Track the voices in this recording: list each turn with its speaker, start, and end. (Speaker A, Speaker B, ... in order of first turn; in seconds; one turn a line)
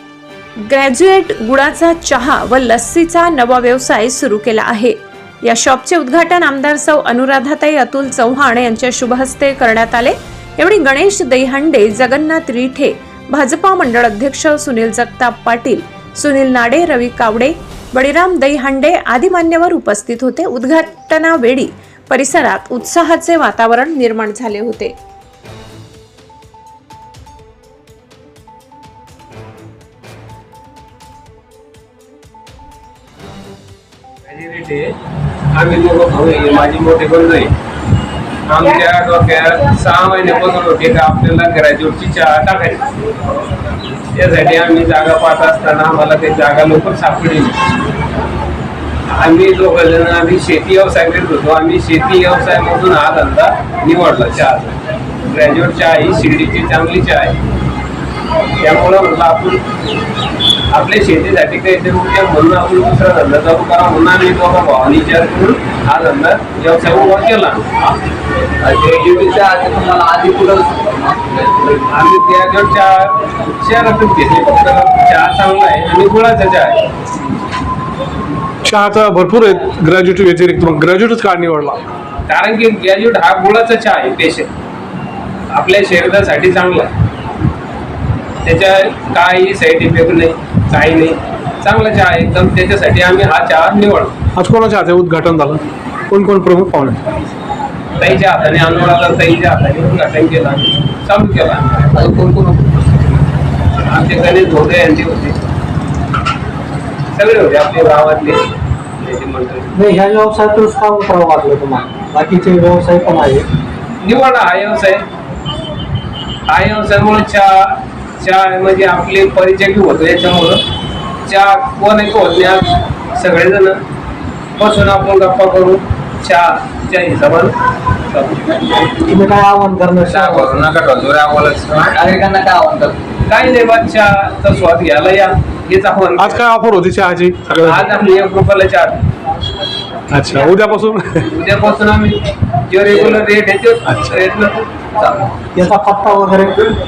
Speaker A: 0.7-24.9
Speaker B: 34.2-34.9
Speaker B: 35.5-37.5
Speaker B: 38.5-42.9
Speaker B: 44.1-47.6
Speaker B: 49.1-57.4
Speaker B: 58.6-59.6
Speaker B: 60.7-68.0
Speaker C: 68.6-71.8
Speaker B: 71.8-76.8
Speaker D: 78.6-81.9
Speaker B: 82.3-84.5
Speaker B: 85.5-86.9
Speaker B: 88.4-94.1
Speaker D: 94.3-97.0
Speaker B: 98.0-102.0
Speaker C: 102.0-102.8
Speaker B: 103.8-105.4
Speaker B: 107.1-108.4
Speaker B: 109.0-109.7
Speaker E: 109.7-113.4
Speaker B: 114.0-115.0
Speaker B: 116.5-120.6
Speaker B: 121.2-123.8
Speaker B: 124.6-127.5
Speaker B: 128.1-128.6
Speaker E: 129.1-130.7
Speaker C: 130.2-133.0
Speaker B: 130.9-131.7
Speaker B: 133.3-136.4
Speaker D: 136.2-137.8
Speaker B: 137.6-139.0
Speaker D: 140.1-141.3
Speaker B: 141.3-144.6
Speaker D: 143.9-144.2
Speaker C: 145.0-145.3
Speaker E: 145.5-146.7